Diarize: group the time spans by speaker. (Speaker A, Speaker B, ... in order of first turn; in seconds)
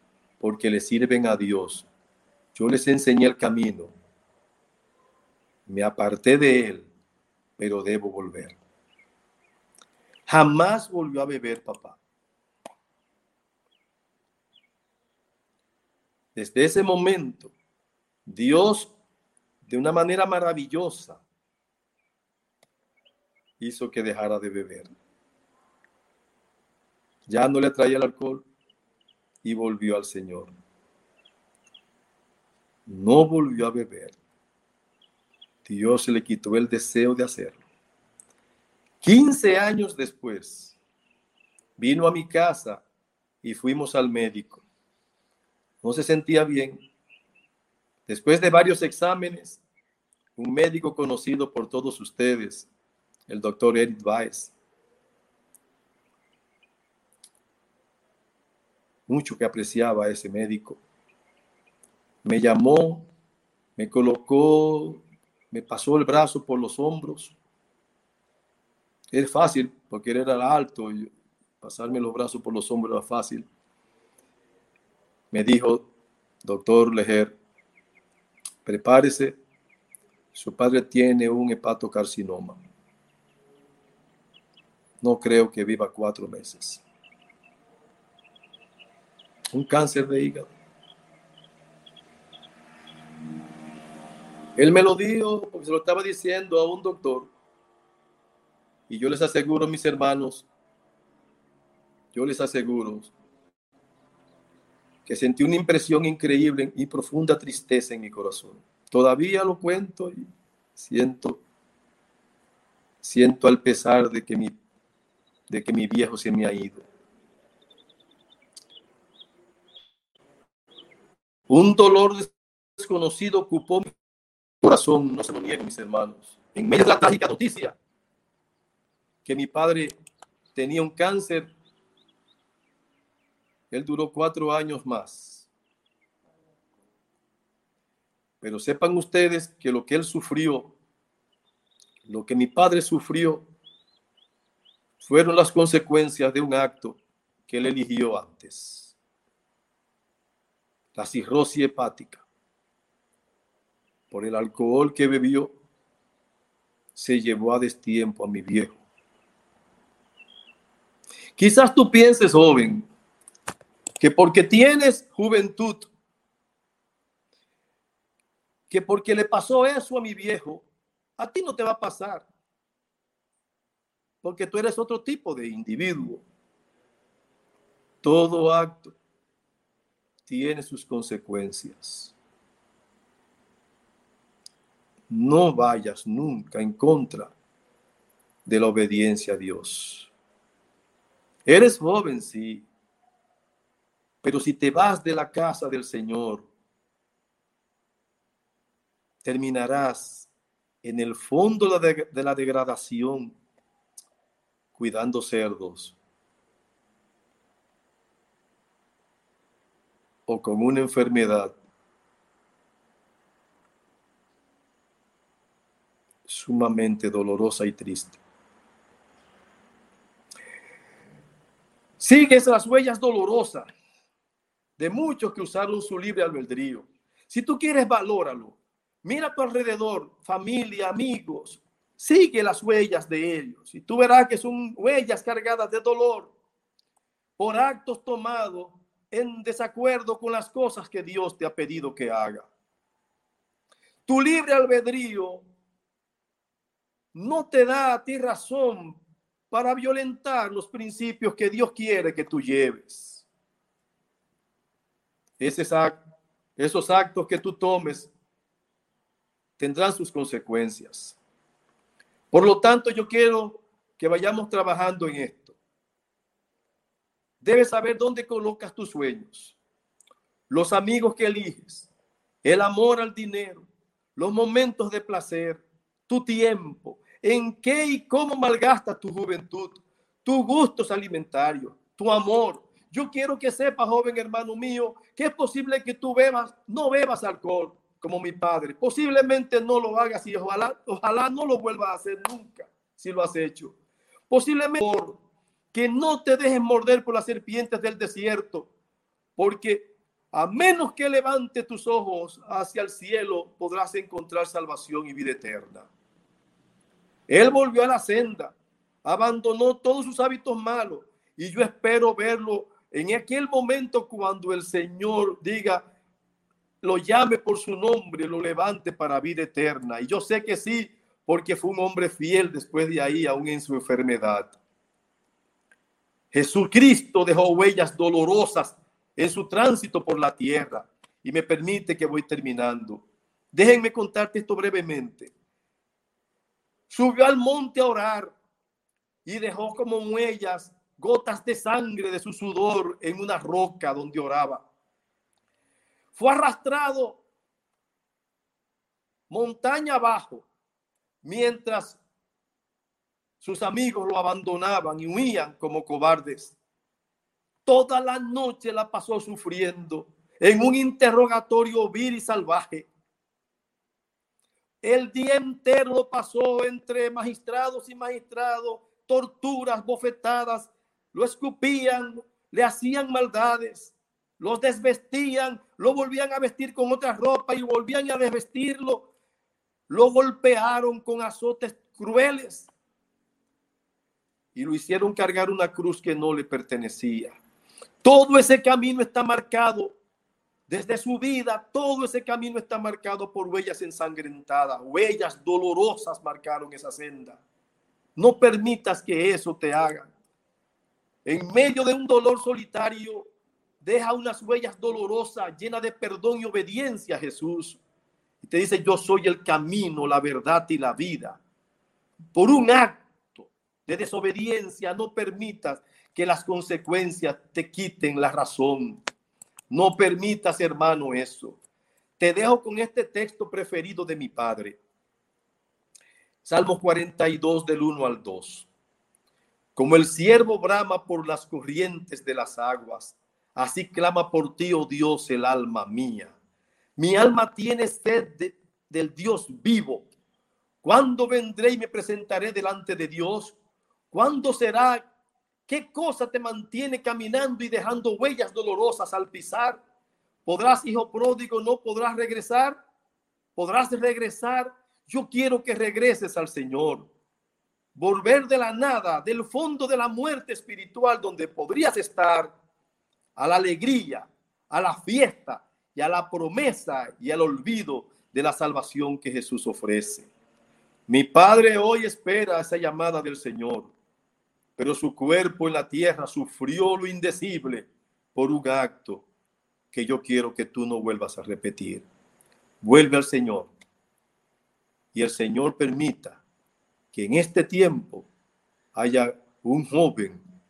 Speaker A: 0.4-1.9, 2.5-3.9, 5.7-6.9, 7.6-8.6, 10.3-12.0, 16.4-17.5, 18.3-18.9, 19.7-21.2, 23.6-24.9, 27.3-28.4, 29.4-30.5, 32.9-34.2, 35.6-37.6, 39.0-40.8, 41.8-42.8, 43.4-44.6, 45.8-46.8, 48.1-49.6, 50.4-52.7, 53.3-54.5, 59.1-60.8, 62.2-63.1, 63.8-67.4, 69.1-71.1, 71.6-73.5, 75.3-75.9, 76.4-77.3, 78.7-79.4, 80.3-82.6, 85.0-86.8, 89.5-90.5, 94.6-97.3, 98.9-100.5, 102.1-103.1, 105.1-110.3, 110.8-111.4, 113.0-114.5, 115.5-116.8, 121.5-123.9, 124.6-127.8, 129.2-129.9, 130.6-131.5, 133.7-135.5, 138.4-140.7, 142.1-143.4, 145.0-149.0, 150.9-152.2, 154.1-155.5, 156.9-158.8, 161.4-162.9, 164.0-165.9, 168.7-170.7, 171.2-172.3, 174.2-176.2, 178.0-179.0, 180.3-182.2, 185.1-187.3, 188.5-190.1, 191.5-192.7, 194.2-196.5, 199.2-200.3, 200.8-203.4, 204.8-206.0, 210.3-211.5, 216.3-218.2, 222.0-223.7, 224.8-236.3, 237.4-242.5, 244.1-245.4, 247.2-249.0, 249.5-253.3, 255.4-256.0, 256.6-258.1, 259.6-261.2, 262.3-265.6, 267.4-269.6, 270.5-271.9, 272.4-293.8, 294.3-295.2, 295.7-298.7, 299.4-305.9, 307.3-315.9, 316.8-324.6, 326.3-335.3, 336.9-338.3, 339.3-344.6, 346.1-347.2, 349.3-350.5, 351.2-352.0, 353.4-356.6, 357.7-362.9, 364.8-379.1, 379.9-382.7, 384.6-387.4, 388.0-390.0, 390.7-397.4, 398.2-400.1, 401.2-403.3, 403.8-407.8, 408.4-411.4, 412.3-419.0, 419.7-421.6, 422.2-424.8, 426.4-428.7, 429.8-436.3, 437.0-440.1, 440.8-443.6, 444.1-445.1, 445.7-449.8, 450.5-452.8, 453.6-457.1, 458.0-462.5, 463.4-470.3, 471.1-473.9, 474.8-479.3, 479.9-482.1, 482.8-483.7, 485.1-486.4, 487.1-488.3, 488.9-490.4